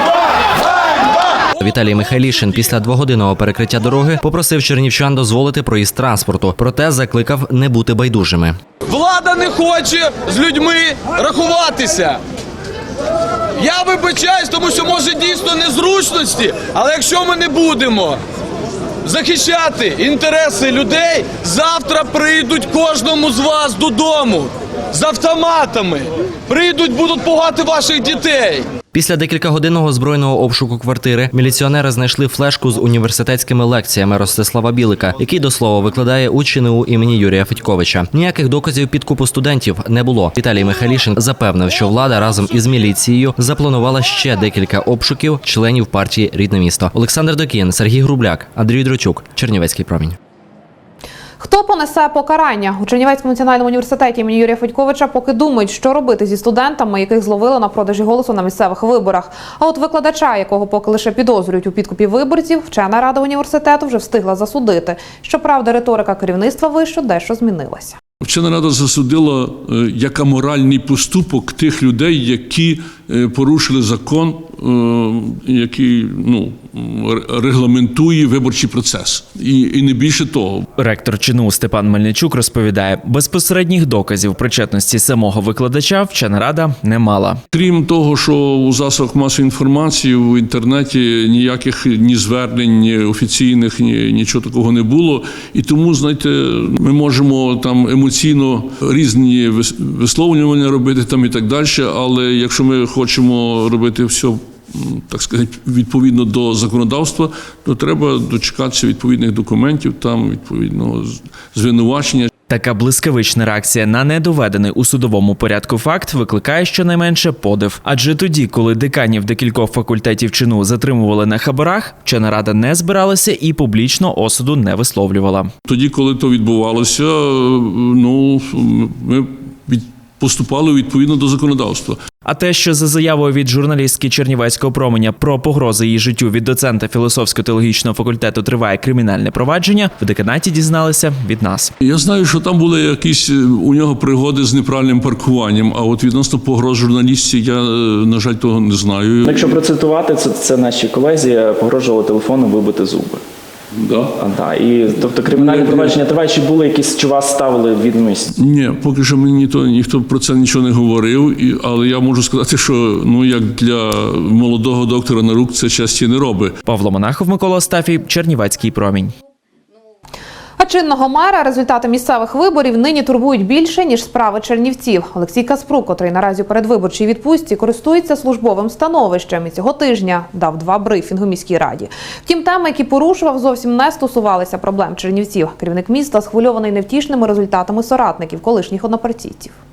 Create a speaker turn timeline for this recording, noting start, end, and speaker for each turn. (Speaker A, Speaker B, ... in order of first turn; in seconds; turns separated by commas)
Speaker A: 1.6-8.6, Speaker B: 8.8-12.2, Speaker B: 13.6-18.2, Speaker B: 19.0-28.7, Speaker A: 28.9-50.1, Speaker C: 51.4-68.0, Speaker D: 68.2-80.7, Speaker E: 80.8-87.4, Speaker D: 87.5-112.3, Speaker E: 112.5-125.5, Speaker D: 125.7-132.0, Speaker E: 132.2-141.7, Speaker D: 141.8-149.6, Speaker F: 149.2-153.2, Speaker F: 153.8-158.3, Speaker D: 155.3-155.9, Speaker D: 158.3-166.6, Speaker E: 166.6-169.1, Speaker C: 170.6-189.6